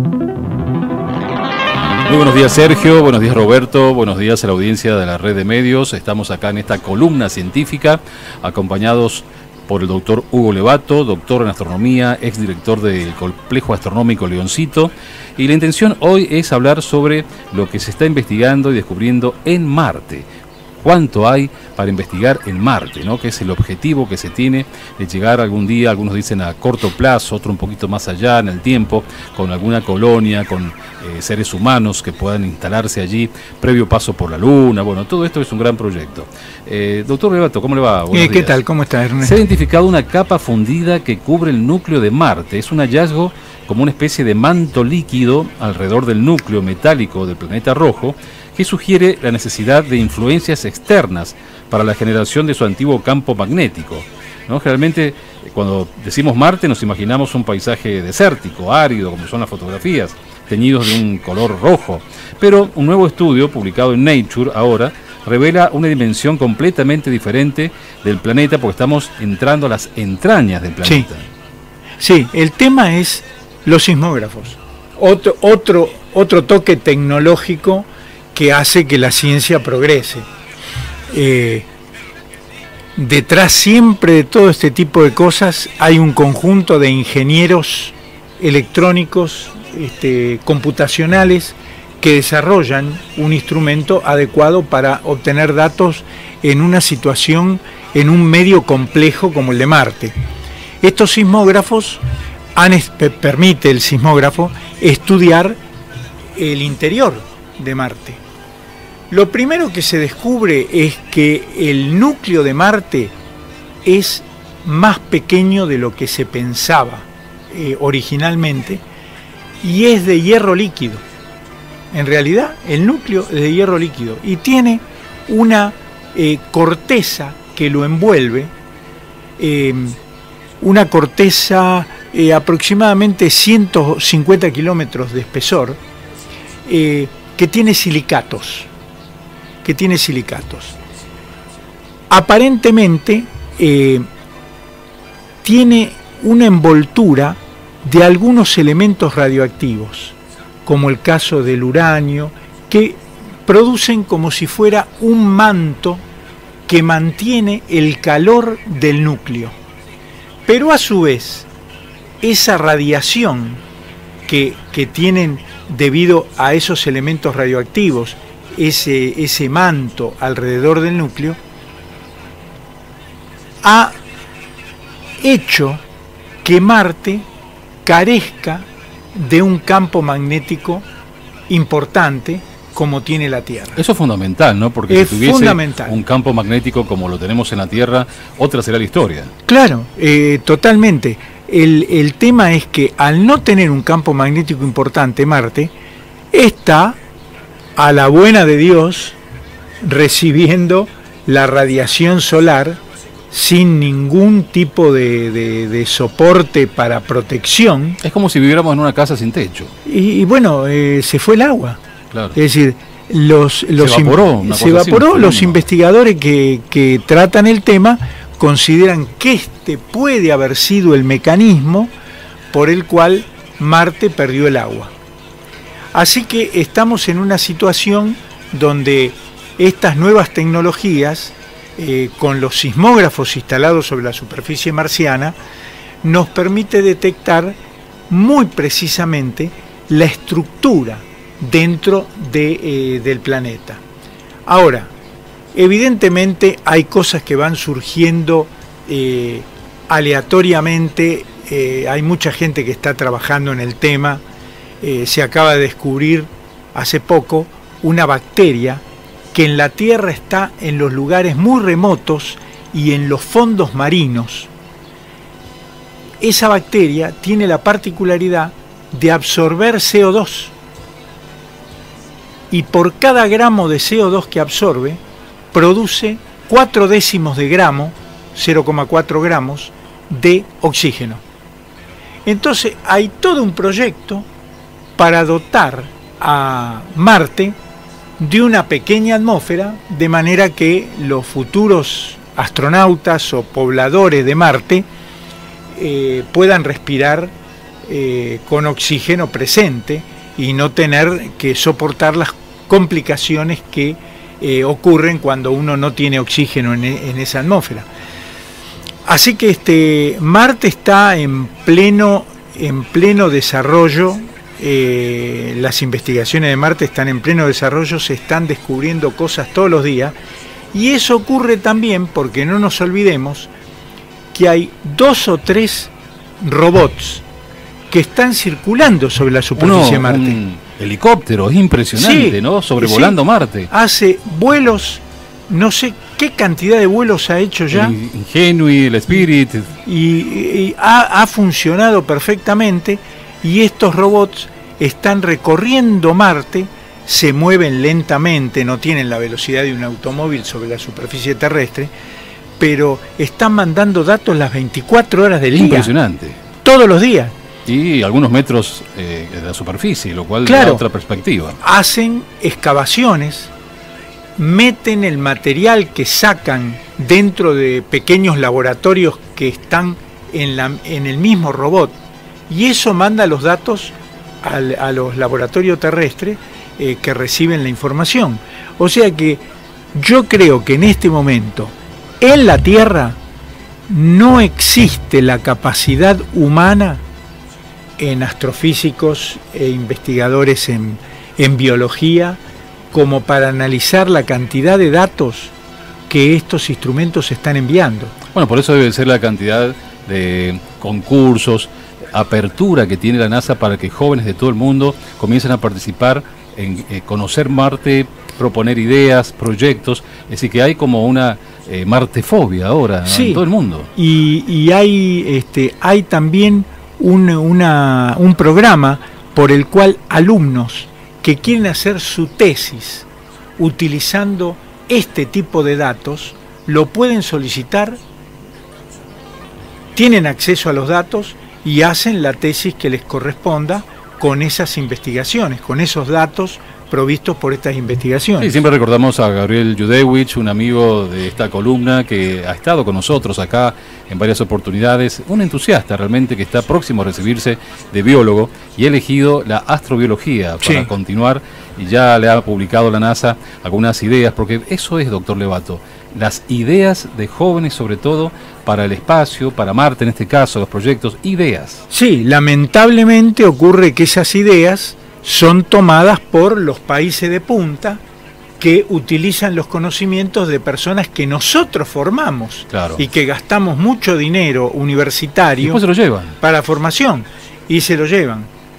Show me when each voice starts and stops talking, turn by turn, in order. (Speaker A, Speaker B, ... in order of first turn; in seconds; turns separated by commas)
Speaker A: 2.0-38.6, Speaker B: 38.1-39.4, Speaker A: 39.2-71.3, Speaker B: 70.8-71.1, Speaker B: 72.0-80.3, Speaker B: 81.1-81.7, Speaker B: 83.0-100.1, Speaker B: 100.8-102.0, Speaker B: 102.5-105.6, Speaker B: 106.3-108.2, Speaker B: 109.1-113.1, Speaker B: 113.8-118.8, Speaker B: 119.6-121.0, Speaker B: 121.9-128.5, Speaker B: 129.4-130.0, Speaker B: 130.6-135.8, Speaker B: 136.7-138.7, Speaker B: 139.6-140.7, Speaker B: 142.1-144.0, Speaker B: 145.4-156.0, Speaker B: 156.7-159.6, Speaker B: 160.4-161.5, Speaker B: 162.2-163.6, Speaker B: 164.3-171.4, Speaker B: 173.6-174.0, Speaker B: 175.2-175.8, Speaker B: 176.4-177.3, Speaker B: 177.8-180.8, Speaker B: 181.5-183.8, Speaker A: 183.8-189.3, Speaker B: 184.9-186.0, Speaker B: 189.4-195.7, Speaker B: 196.3-197.0, Speaker B: 197.8-199.2, Speaker B: 199.8-208.0, Speaker A: 208.0-209.7, Speaker B: 209.8-211.8, Speaker B: 212.3-221.9, Speaker A: 213.8-215.6, Speaker B: 222.5-224.9, Speaker B: 225.9-235.3, Speaker B: 236.0-237.6, Speaker B: 238.1-243.8, Speaker B: 244.4-244.9, Speaker B: 245.5-254.2, Speaker B: 254.8-264.5, Speaker B: 266.2-270.5, Speaker B: 272.5-275.0, Speaker B: 275.5-281.2, Speaker B: 282.2-284.3, Speaker B: 284.9-287.6, Speaker B: 288.2-294.9, Speaker B: 295.7-297.3, Speaker B: 297.8-307.9, Speaker B: 309.0-320.1, Speaker B: 320.7-323.5, Speaker B: 324.3-327.2, Speaker B: 327.9-330.4, Speaker A: 329.6-333.7, Speaker B: 331.9-333.2, Speaker B: 333.7-337.9, Speaker A: 337.7-339.7, Speaker B: 339.8-351.9, Speaker B: 352.6-355.9, Speaker A: 355.5-356.4, Speaker B: 356.6-357.3, Speaker A: 357.6-361.6, Speaker B: 360.4-360.8, Speaker B: 361.6-363.5, Speaker B: 364.4-383.2, Speaker B: 383.9-387.0, Speaker B: 388.0-392.4, Speaker B: 392.9-395.5, Speaker B: 396.1-398.1, Speaker A: 398.3-413.9, Speaker B: 413.0-428.0, Speaker B: 429.9-438.6, Speaker A: 438.4-461.9, Speaker B: 450.6-450.9, Speaker B: 461.9-468.0, Speaker B: 468.6-475.8, Speaker A: 472.7-473.0, Speaker A: 475.6-476.4, Speaker B: 476.4-478.5